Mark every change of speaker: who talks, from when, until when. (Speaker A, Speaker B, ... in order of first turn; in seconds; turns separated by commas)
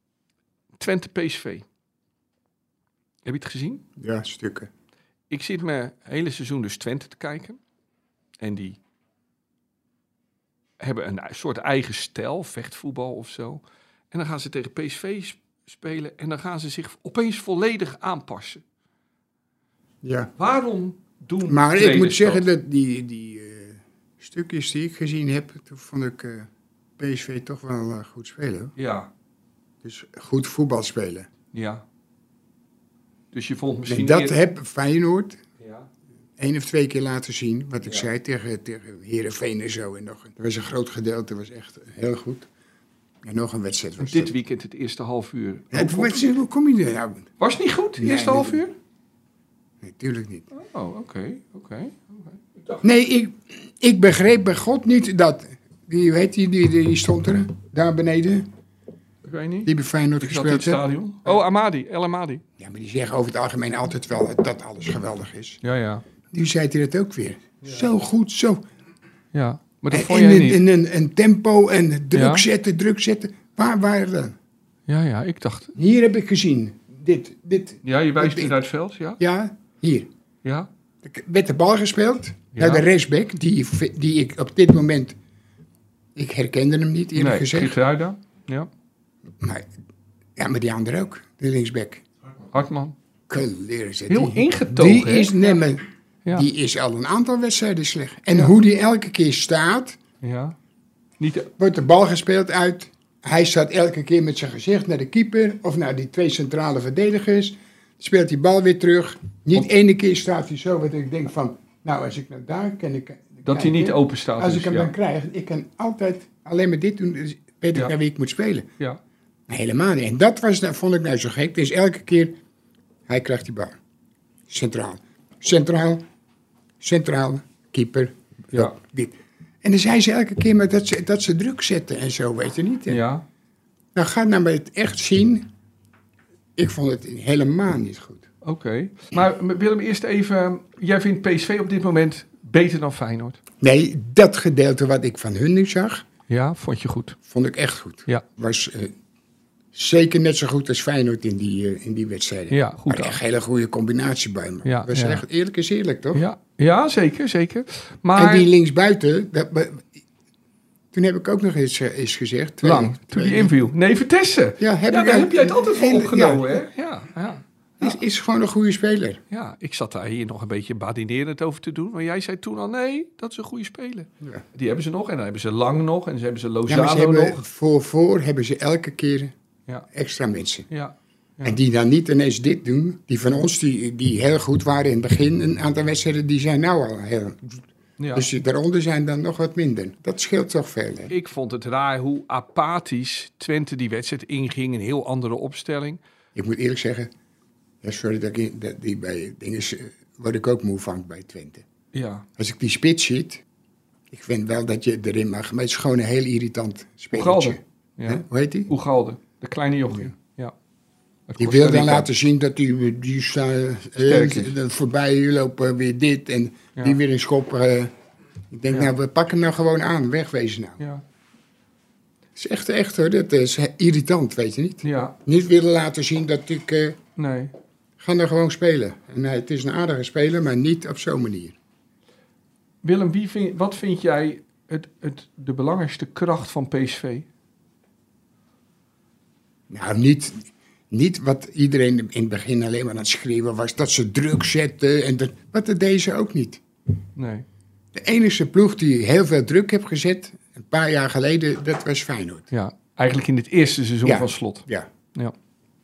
Speaker A: 0.8-1.6, Speaker A: 3.2-3.8, Speaker B: 4.0-4.7, Speaker A: 5.3-7.6, Speaker A: 8.4-8.8, Speaker A: 10.8-18.6, Speaker B: 20.0-20.3, Speaker A: 20.4-22.5, Speaker B: 21.4-28.7, Speaker A: 28.8-29.1, Speaker B: 29.8-31.3, Speaker A: 31.5-31.8, Speaker A: 33.3-34.4, Speaker B: 33.9-35.4, Speaker A: 35.6-35.9, Speaker B: 36.4-42.5, Speaker B: 43.2-44.3, Speaker A: 44.0-46.2, Speaker B: 45.7-47.3, Speaker A: 47.4-48.7, Speaker B: 48.0-48.6, Speaker B: 49.8-50.5, Speaker A: 50.5-52.8, Speaker B: 52.8-58.5, Speaker A: 59.2-62.4, Speaker B: 59.6-60.8, Speaker B: 62.6-65.6, Speaker A: 65.6-66.0, Speaker B: 66.3-68.6, Speaker A: 69.3-70.6, Speaker B: 69.9-74.4, Speaker A: 72.1-72.5, Speaker A: 74.9-75.7, Speaker B: 75.8-78.6, Speaker A: 77.8-79.2, Speaker B: 79.2-80.1, Speaker A: 80.4-80.7, Speaker B: 81.0-85.2, Speaker A: 82.5-82.9, Speaker B: 86.2-87.8, Speaker A: 87.2-88.7, Speaker B: 89.4-89.7, Speaker B: 90.4-92.0, Speaker A: 92.5-92.9, Speaker B: 93.3-100.0, Speaker A: 94.1-95.4, Speaker A: 100.2-100.6, Speaker A: 101.2-101.5, Speaker B: 101.6-118.7, Speaker A: 113.5-114.9, Speaker B: 119.5-122.4, Speaker B: 123.1-123.8, Speaker B: 124.5-126.0, Speaker B: 126.8-133.0, Speaker A: 132.9-133.2, Speaker B: 133.9-135.5, Speaker B: 136.6-138.3, Speaker A: 138.4-143.4, Speaker B: 143.6-146.1, Speaker A: 146.3-147.2, Speaker B: 147.3-148.9, Speaker B: 149.7-156.2, Speaker A: 152.5-153.2, Speaker A: 154.7-155.2, Speaker A: 156.1-158.5, Speaker B: 158.2-160.0, Speaker B: 160.9-163.5, Speaker A: 162.6-168.0, Speaker B: 164.6-166.6, Speaker B: 167.8-169.2, Speaker A: 169.3-177.4, Speaker B: 176.7-179.3, Speaker B: 179.9-180.7, Speaker A: 180.7-181.6, Speaker B: 181.4-191.1, Speaker A: 188.0-188.3, Speaker A: 191.1-196.0, Speaker B: 196.3-197.1, Speaker B: 197.8-201.7, Speaker A: 201.9-202.3, Speaker B: 202.4-203.4, Speaker B: 204.1-208.7, Speaker A: 207.1-210.5, Speaker A: 211.3-212.1, Speaker B: 211.4-217.9, Speaker A: 214.0-214.5, Speaker B: 218.5-220.8, Speaker B: 222.3-227.0, Speaker A: 224.8-225.2, Speaker A: 227.2-227.5, Speaker B: 228.0-231.6, Speaker A: 232.8-237.3, Speaker B: 239.7-246.6, Speaker A: 247.2-247.4, Speaker B: 247.9-252.5, Speaker A: 252.5-255.3, Speaker B: 254.0-254.9